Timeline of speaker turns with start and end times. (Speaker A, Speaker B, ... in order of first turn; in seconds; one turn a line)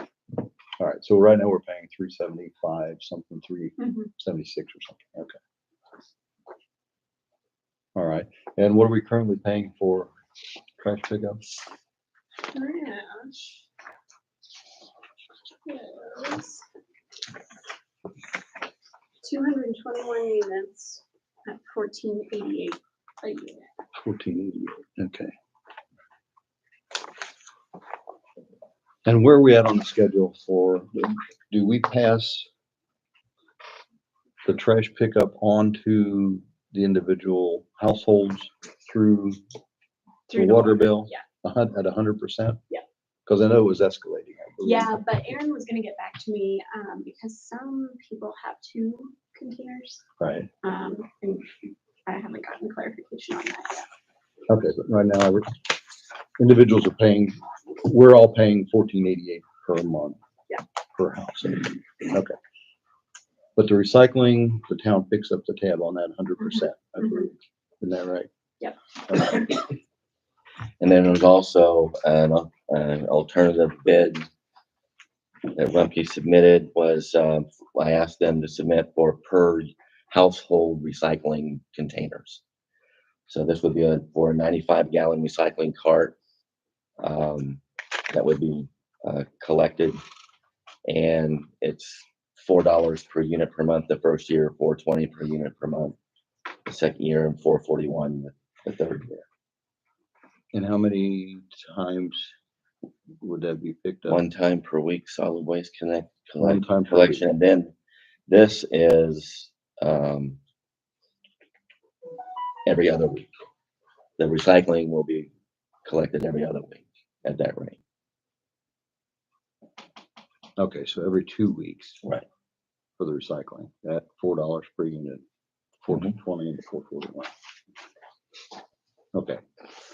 Speaker A: 0.8-5.4
Speaker B: 3.8-4.1
Speaker A: 8.0-10.1
Speaker A: 10.8-11.4
Speaker B: 12.5-13.6
Speaker B: 15.6-16.6
Speaker B: 19.2-23.7
Speaker A: 23.9-25.3
Speaker A: 29.0-32.5
Speaker A: 34.4-39.4
Speaker B: 40.3-41.2
Speaker A: 40.3-42.6
Speaker A: 43.3-45.0
Speaker B: 44.6-50.0
Speaker A: 50.2-50.5
Speaker B: 50.6-53.9
Speaker A: 54.5-55.6
Speaker A: 56.4-60.2
Speaker A: 61.0-62.3
Speaker A: 63.5-68.3
Speaker A: 69.1-69.4
Speaker C: 70.8-74.3
Speaker C: 75.5-82.4
Speaker C: 83.3-86.2
Speaker C: 87.0-87.6
Speaker C: 88.1-90.0
Speaker C: 90.8-96.0
Speaker C: 96.7-99.2
Speaker A: 100.5-102.3
Speaker A: 103.2-104.2
Speaker C: 104.1-107.7
Speaker A: 106.4-107.3
Speaker C: 108.3-110.4
Speaker C: 112.7-113.3
Speaker C: 114.2-115.3
Speaker C: 115.8-117.8
Speaker A: 120.6-122.0
Speaker A: 123.0-125.2
Speaker A: 125.8-127.3
Speaker A: 129.1-129.4